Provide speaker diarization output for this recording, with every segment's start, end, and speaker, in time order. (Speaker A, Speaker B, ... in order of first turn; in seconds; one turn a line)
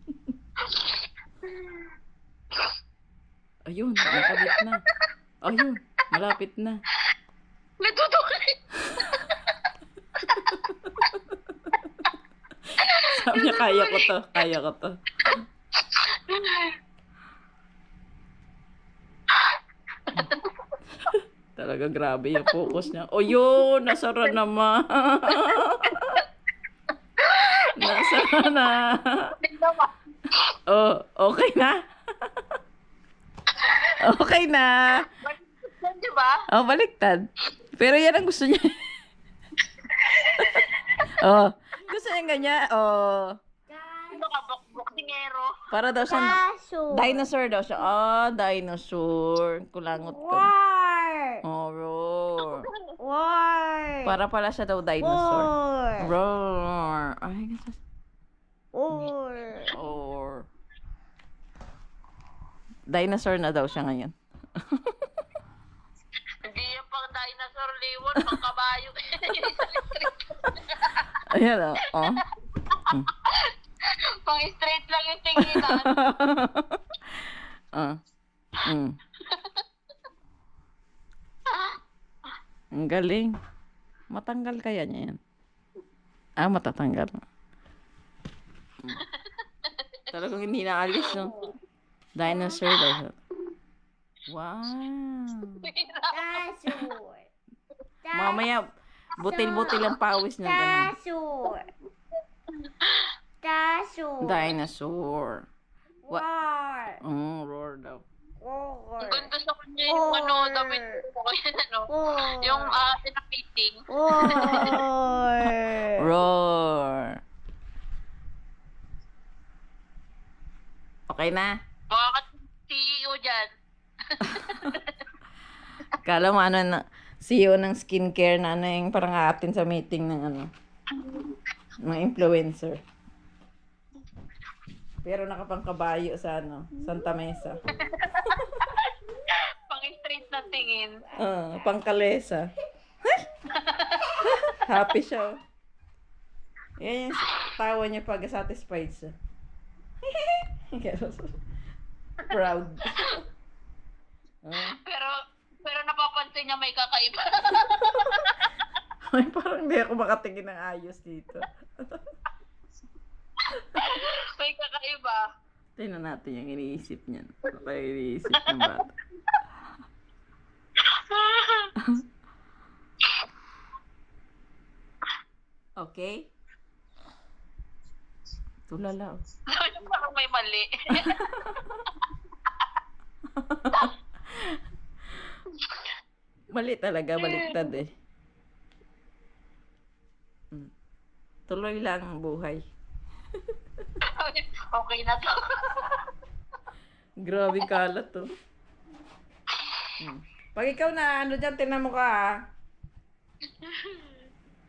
Speaker A: 1.5-1.8
Speaker B: 3.7-4.8
Speaker A: 4.1-4.5
Speaker B: 5.4-6.8
Speaker A: 7.8-9.5
Speaker B: 10.4-11.8
Speaker A: 12.9-14.1
Speaker B: 13.1-15.0
Speaker A: 15.9-16.7
Speaker A: 20.1-20.5
Speaker B: 21.6-26.2
Speaker A: 27.2-28.5
Speaker B: 27.8-29.3
Speaker A: 29.4-29.9
Speaker B: 30.7-31.8
Speaker A: 33.6-33.9
Speaker B: 34.0-35.1
Speaker A: 35.2-36.4
Speaker B: 36.5-37.2
Speaker B: 37.8-38.8
Speaker A: 40.0-40.7
Speaker B: 41.1-43.4
Speaker C: 41.8-42.9
Speaker C: 43.7-45.1
Speaker A: 44.1-45.5
Speaker B: 45.7-50.5
Speaker C: 46.1-47.3
Speaker C: 50.0-51.4
Speaker B: 51.4-52.7
Speaker C: 53.0-54.1
Speaker B: 54.0-57.8
Speaker C: 55.0-56.1
Speaker C: 58.7-59.7
Speaker B: 59.7-60.5
Speaker B: 62.9-65.0
Speaker A: 66.4-71.2
Speaker B: 71.3-72.2
Speaker A: 74.2-75.9
Speaker B: 75.4-76.8
Speaker B: 78.7-78.9
Speaker A: 79.3-79.6
Speaker B: 82.7-83.3
Speaker B: 84.1-85.2
Speaker B: 86.4-87.2
Speaker B: 90.1-91.4
Speaker A: 91.0-91.3
Speaker C: 91.2-91.5
Speaker B: 92.2-93.2
Speaker B: 94.3-95.7
Speaker A: 95.7-96.8
Speaker C: 96.1-97.3
Speaker C: 98.0-98.6
Speaker B: 98.1-100.9
Speaker C: 99.2-99.8
Speaker A: 99.6-100.0
Speaker C: 100.4-101.7
Speaker A: 102.7-103.1
Speaker C: 103.4-104.6
Speaker B: 104.2-105.5
Speaker C: 106.0-107.0
Speaker B: 107.0-108.0
Speaker C: 108.4-109.3
Speaker A: 109.0-114.8
Speaker C: 109.9-111.0
Speaker C: 111.9-112.8
Speaker C: 113.9-116.1
Speaker B: 114.2-114.8
Speaker B: 116.0-117.1
Speaker B: 121.1-121.5
Speaker A: 121.9-123.5
Speaker A: 124.1-125.0
Speaker B: 126.0-130.5
Speaker A: 131.0-131.3
Speaker B: 131.8-132.8
Speaker B: 135.0-137.6
Speaker C: 136.8-137.9
Speaker A: 137.8-138.9
Speaker A: 139.7-141.0
Speaker C: 140.3-141.7
Speaker B: 141.2-142.4
Speaker A: 143.6-144.5
Speaker B: 144.6-145.3
Speaker B: 146.8-149.1
Speaker B: 150.1-151.3
Speaker B: 152.3-153.2
Speaker B: 154.4-154.8
Speaker A: 154.9-155.1
Speaker A: 155.7-158.4
Speaker B: 159.1-162.0
Speaker A: 163.7-165.2
Speaker B: 165.8-168.9
Speaker A: 168.4-168.8
Speaker A: 171.0-171.7
Speaker B: 175.8-176.3
Speaker B: 178.7-179.2
Speaker A: 179.5-181.3
Speaker B: 181.0-181.7
Speaker B: 183.4-183.8
Speaker A: 185.6-185.9
Speaker B: 186.5-187.9
Speaker A: 187.2-187.7
Speaker B: 191.5-192.6
Speaker A: 194.2-196.1
Speaker B: 197.2-198.3
Speaker B: 200.0-202.2
Speaker A: 203.6-204.2